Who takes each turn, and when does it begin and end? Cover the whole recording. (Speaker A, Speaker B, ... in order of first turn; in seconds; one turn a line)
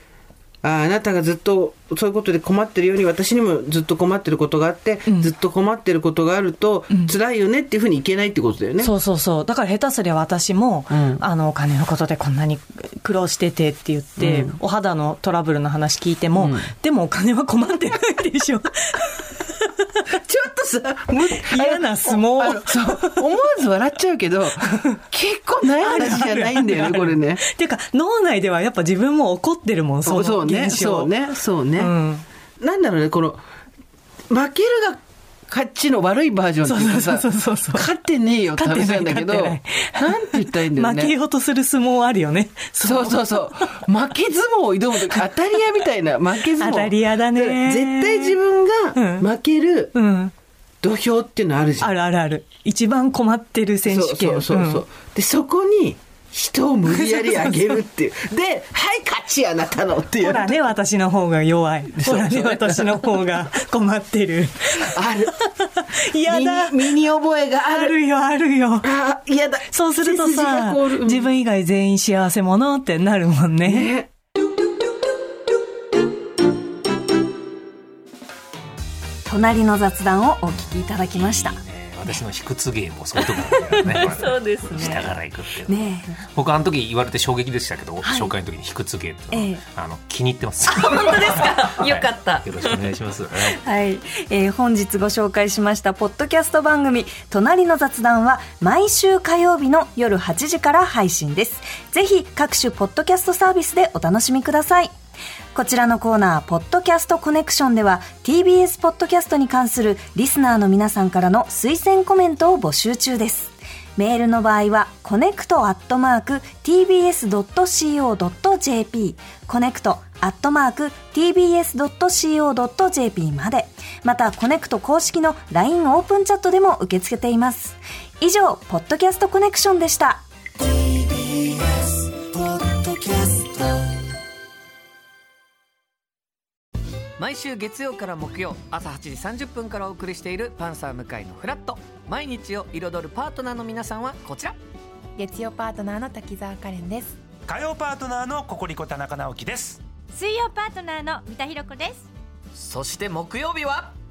Speaker A: 0.6-8.9
Speaker B: 5.1-5.3
Speaker B: 6.9-7.2
Speaker B: 8.8-19.3
Speaker A: 10.9-11.2
Speaker A: 14.2-14.6
Speaker A: 16.3-16.7
Speaker A: 20.1-27.4
Speaker B: 21.3-23.3
Speaker B: 24.6-25.0
Speaker B: 25.7-32.2
Speaker A: 30.0-31.9
Speaker A: 32.6-33.4
Speaker A: 34.3-41.1
Speaker B: 36.6-37.9
Speaker B: 38.5-43.9
Speaker A: 42.8-49.9
Speaker B: 45.0-48.4
Speaker B: 48.9-49.3
Speaker B: 49.9-50.3
Speaker A: 50.8-51.9
Speaker B: 51.8-54.9
Speaker A: 53.8-60.6
Speaker B: 56.9-57.8
Speaker B: 60.2-67.1
Speaker A: 61.9-63.0
Speaker A: 64.9-65.3
Speaker A: 66.2-67.9
Speaker B: 67.7-69.0
Speaker A: 68.8-71.3
Speaker B: 69.7-73.9
Speaker A: 73.6-74.1
Speaker C: 79.2-81.6
Speaker D: 81.0-93.6
Speaker C: 83.2-85.1
Speaker C: 85.6-86.2
Speaker C: 88.0-88.3
Speaker C: 89.3-89.6
Speaker C: 90.7-92.8
Speaker C: 93.6-104.9
Speaker C: 105.5-130.2
Speaker E: 137.2-144.6
Speaker F: 145.2-147.2
Speaker G: 147.5-149.8
Speaker H: 150.1-152.1
Speaker E: 152.6-153.9